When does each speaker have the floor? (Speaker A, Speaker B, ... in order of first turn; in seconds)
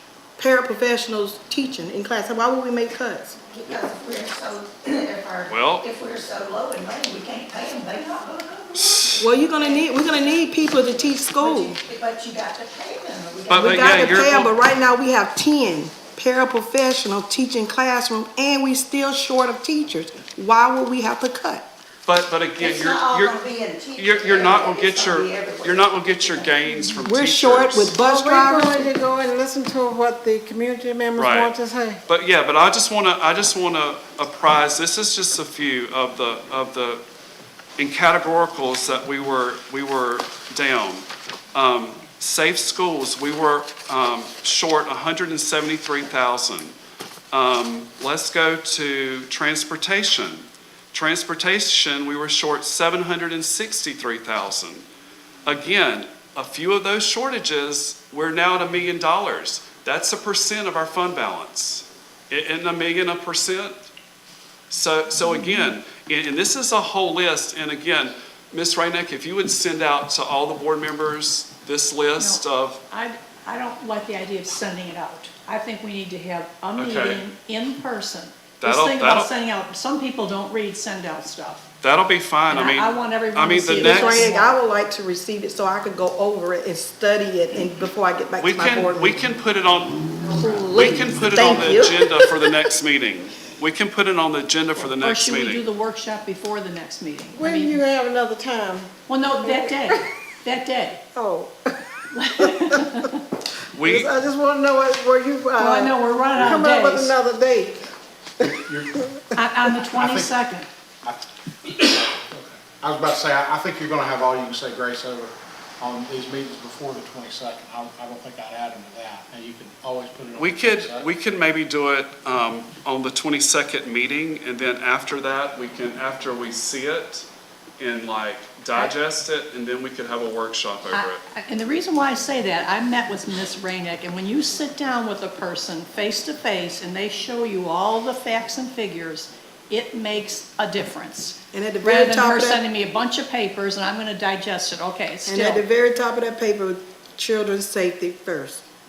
Speaker A: 0.4-3.4, 9.2-11.8, 13.5-21.7, 27.1-28.9, 83.8-89.2, 90.4-92.0, 141.5-142.6, 145.3-148.6
Speaker B: 3.5-10.4, 11.3-14.2, 22.6-26.8, 91.3-91.9
Speaker C: 5.5-5.9, 8.8-9.2, 13.5-14.5, 22.1-28.0, 31.2-31.5, 32.1-37.0, 37.8-46.8, 47.3-54.9, 55.5-63.8, 64.7-72.8, 76.8-77.2, 78.6-79.3, 81.8-84.3, 88.4-95.6, 103.7-104.1, 120.3-127.3, 127.8-131.2
Speaker D: 28.0-32.0, 97.3-100.0, 101.2-101.5, 102.5-103.0, 103.8-107.8
Speaker E: 65.3-65.7, 72.2-81.7, 82.5-84.5, 94.8-97.8, 99.1-101.0, 102.2-103.2, 105.6-107.2, 109.3-110.7, 130.9-145.6
Speaker F: 108.4-109.0, 109.9-110.4, 111.0-121.1